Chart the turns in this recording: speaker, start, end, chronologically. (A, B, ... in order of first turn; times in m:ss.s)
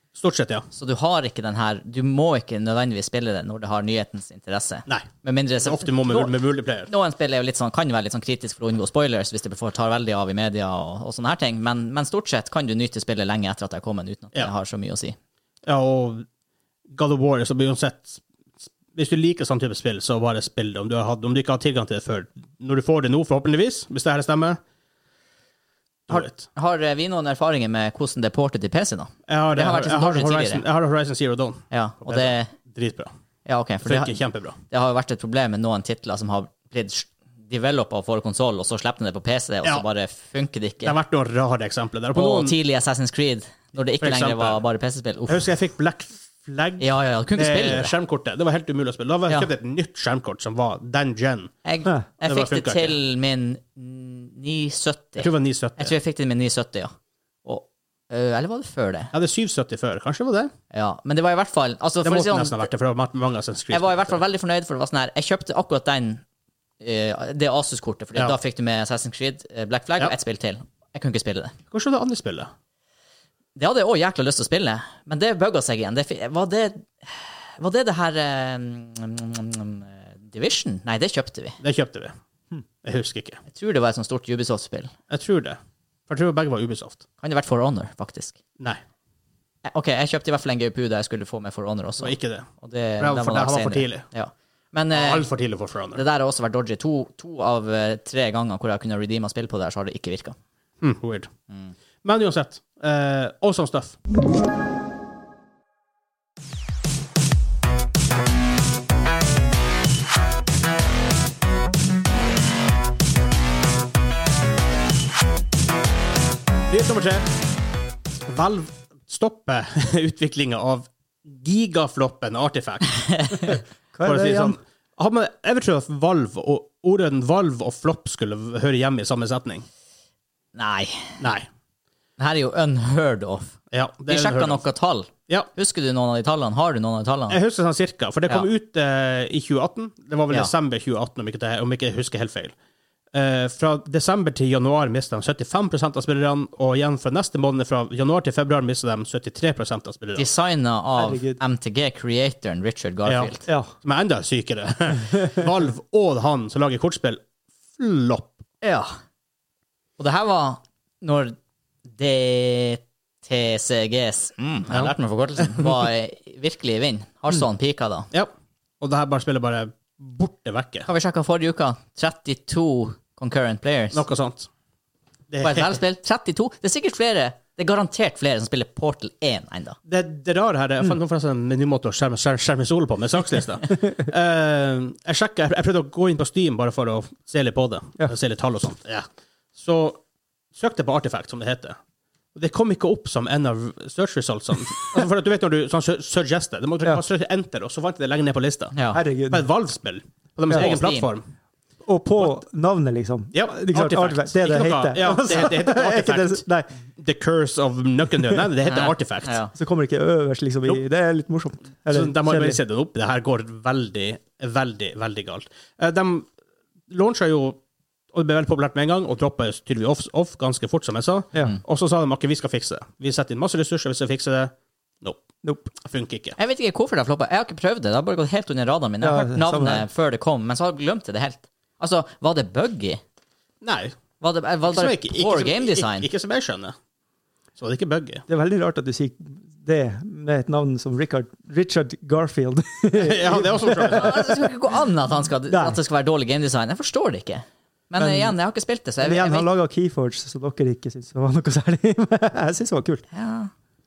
0:00.1-0:00.7 A
0:00.7-0:06.3 B
0:05.6-0:06.9 A
0:06.9-0:15.2 B
0:15.6-0:16.2 A
0:16.9-0:24.6 A
0:26.1-0:26.4 A
0:26.1-0:30.6 B
0:29.3-0:33.1 A
0:31.7-0:32.5 B
0:33.4-0:34.2 B
0:33.8-0:34.6 A
0:34.7-0:41.0 B
0:40.8-0:42.5 A
0:42.1-0:45.5 B
0:44.0-0:44.6 A
0:45.3-0:51.5 A
0:46.8-0:47.9 B
0:51.6-0:56.9 B
0:52.2-0:53.0 A
0:55.2-0:55.9 A
0:57.4-0:59.1 B
0:59.1-1:00.5 A
1:00.7-1:02.6 B
1:02.0-1:04.2 A
1:03.7-1:06.2 B
1:06.8-1:11.5 B
1:11.7-1:12.5 A
1:13.6-1:21.6 B
1:21.6-1:22.1 A
1:22.8-1:23.4 A
1:23.5-1:24.9 B
1:25.1-1:27.0 A
1:27.2-1:28.4 B
1:29.6-1:35.3 B
1:32.0-1:34.0 A
1:34.9-1:36.0 A
1:35.9-1:40.4 B
1:40.8-1:41.3 A
1:42.0-1:44.0 A
1:56.7-1:57.3 A
1:58.2-2:09.6 A
2:03.9-2:04.6 C
2:10.5-2:11.2 B
2:11.2-2:11.5 A
2:12.2-2:17.4 B
2:13.7-2:14.6 A
2:17.3-2:22.5 A
2:23.1-2:30.3 A
2:30.2-2:33.5 B
2:31.0-2:31.4 C
2:33.0-2:37.2 A
2:37.7-2:38.4 A
2:38.6-2:38.9 B
2:40.0-2:41.4 B
2:41.9-2:48.1 B
2:44.7-2:45.7 A
2:48.1-2:50.9 A
2:50.9-2:54.0 B
2:53.9-2:54.5 A
2:55.3-2:55.8 A
2:55.4-2:59.8 B
2:59.9-3:10.0 A
3:10.5-3:11.8 A
3:12.3-3:18.7 A
3:18.7-3:19.0 B
3:18.9-3:19.4 C
3:19.3-3:21.3 A
3:20.5-3:21.1 B
3:21.8-3:26.7 C
3:23.3-3:29.4 A
3:28.6-3:29.5 B
3:29.5-3:32.6 C
3:31.9-3:36.3 A
3:36.9-3:37.6 A
3:38.1-3:46.4 A
3:45.4-3:45.7 C
3:46.4-3:53.0 B
3:49.0-3:49.8 C
3:53.6-3:54.0 A
3:54.2-3:56.1 B
3:54.6-3:56.8 A
3:57.6-3:58.2 A
3:58.3-4:04.5 C
4:02.9-4:04.2 A
4:03.8-4:09.5 B
4:05.5-4:05.8 C
4:08.0-4:08.4 C
4:09.0-4:13.0 C
4:13.1-4:13.5 B